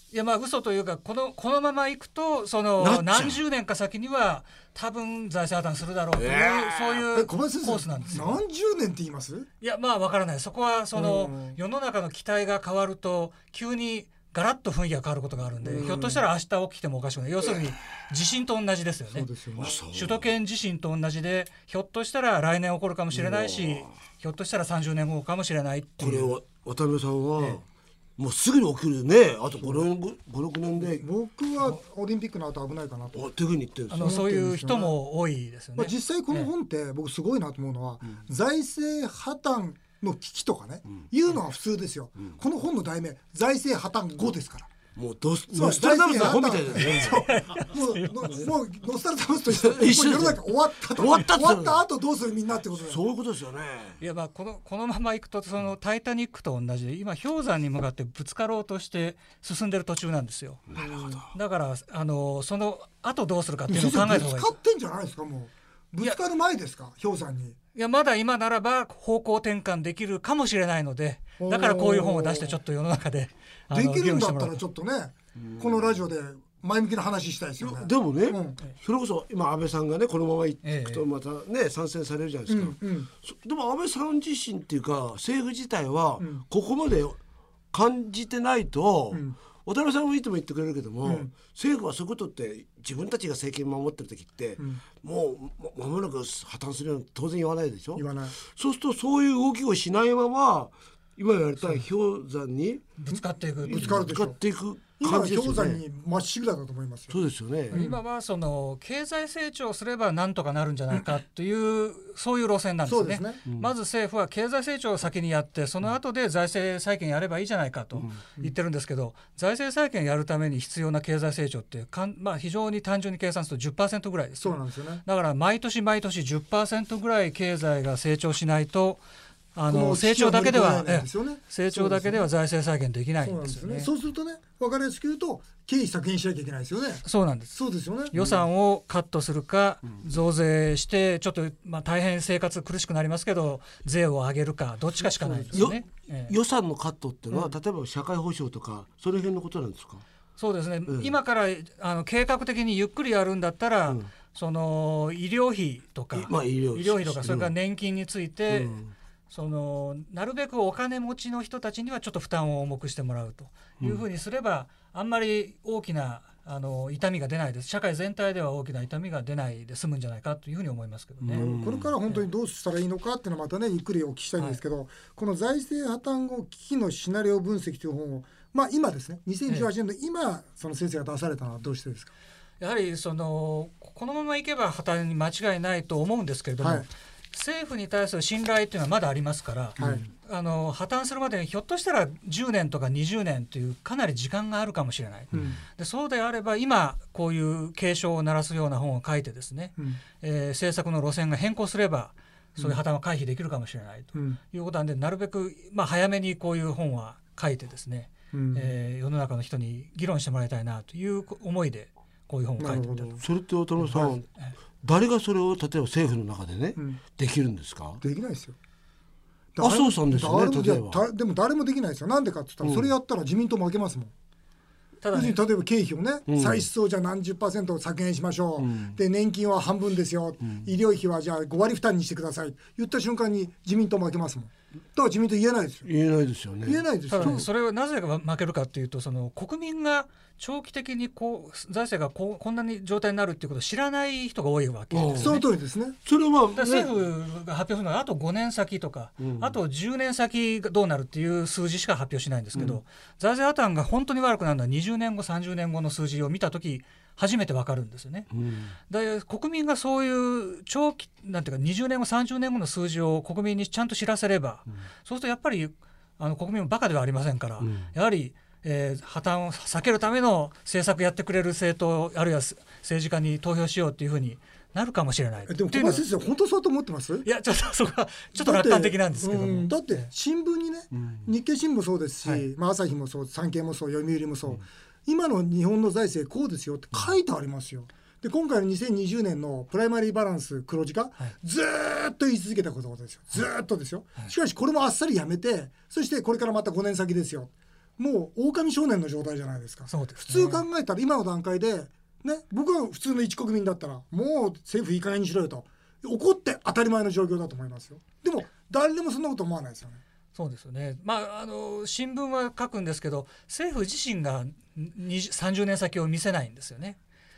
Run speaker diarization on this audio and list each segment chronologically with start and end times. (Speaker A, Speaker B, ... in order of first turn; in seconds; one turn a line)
Speaker A: 0.1-8.4
Speaker B: 2.8-3.4
Speaker B: 6.1-7.1
Speaker C: 7.1-9.5
Speaker A: 9.6-26.3
Speaker C: 10.9-11.6
Speaker C: 15.6-16.2
Speaker C: 19.1-19.8
Speaker B: 19.6-20.2
Speaker B: 23.1-23.9
Speaker B: 26.0-27.6
Speaker B: 28.2-31.1
Speaker C: 30.8-33.2
Speaker B: 33.1-34.1
Speaker A: 33.9-36.5
Speaker C: 33.9-34.9
Speaker C: 35.8-44.7
Speaker B: 44.9-47.2
Speaker C: 45.5-53.0
Speaker A: 46.8-48.5
Speaker B: 49.5-51.8
Speaker B: 52.7-54.0
Speaker A: 54.0-60.6
Speaker B: 60.7-61.3
Speaker C: 60.8-61.2
Speaker A: 61.3-64.5
Speaker C: 63.7-67.5
Speaker A: 67.7-74.6
Speaker C: 71.4-72.6
Speaker C: 73.7-78.6
Speaker B: 75.4-75.9
Speaker B: 77.6-87.2
Speaker A: 80.6-81.0
Speaker C: 82.5-83.1
Speaker B: 87.7-102.8
Speaker C: 89.1-89.4
Speaker C: 91.0-91.3
Speaker C: 98.0-98.3
Speaker A: 103.0-104.1
Speaker C: 103.1-104.4
Speaker B: 103.7-105.8
Speaker C: 105.0-107.2
Speaker B: 107.1-107.8
Speaker C: 107.7-108.0
Speaker A: 107.7-129.0
Speaker C: 112.8-113.4
Speaker C: 124.4-125.0
Speaker A: 129.5-133.9
Speaker C: 129.7-132.3
Speaker C: 133.2-138.1
Speaker A: 137.0-146.3
Speaker B: 138.2-138.4
Speaker C: 145.2-145.6
Speaker B: 145.5-150.0
Speaker A: 150.4-158.8
Speaker B: 150.9-151.1
Speaker B: 156.1-157.5
Speaker B: 158.5-158.9
Speaker A: 159.3-171.5
Speaker B: 171.2-171.9
Speaker C: 171.3-182.1
Speaker A: 182.6-213.2
Speaker C: 186.6-186.9
Speaker C: 189.8-190.0
Speaker B: 195.3-195.6
Speaker C: 195.3-195.6
Speaker C: 208.3-208.7
Speaker C: 212.6-213.2
Speaker B: 213.2-214.3
Speaker C: 213.9-214.1
Speaker B: 214.8-218.0
Speaker C: 218.0-218.5
Speaker C: 219.6-224.1
Speaker B: 219.6-221.0
Speaker B: 222.6-222.9
Speaker A: 225.0-225.4
Speaker C: 225.1-235.9
Speaker B: 226.3-226.7
Speaker B: 228.6-229.0
Speaker B: 235.8-237.4
Speaker C: 236.6-237.5
Speaker A: 237.1-245.5
Speaker B: 244.9-245.4
Speaker C: 245.2-246.0
Speaker B: 246.0-246.9
Speaker A: 246.5-258.3
Speaker B: 249.2-249.5
Speaker B: 252.5-252.8
Speaker B: 258.3-258.7
Speaker A: 258.9-276.0
Speaker B: 267.6-267.9
Speaker C: 275.5-277.3
Speaker A: 277.2-280.1
Speaker C: 278.3-310.0
Speaker A: 299.9-300.6
Speaker A: 310.3-317.0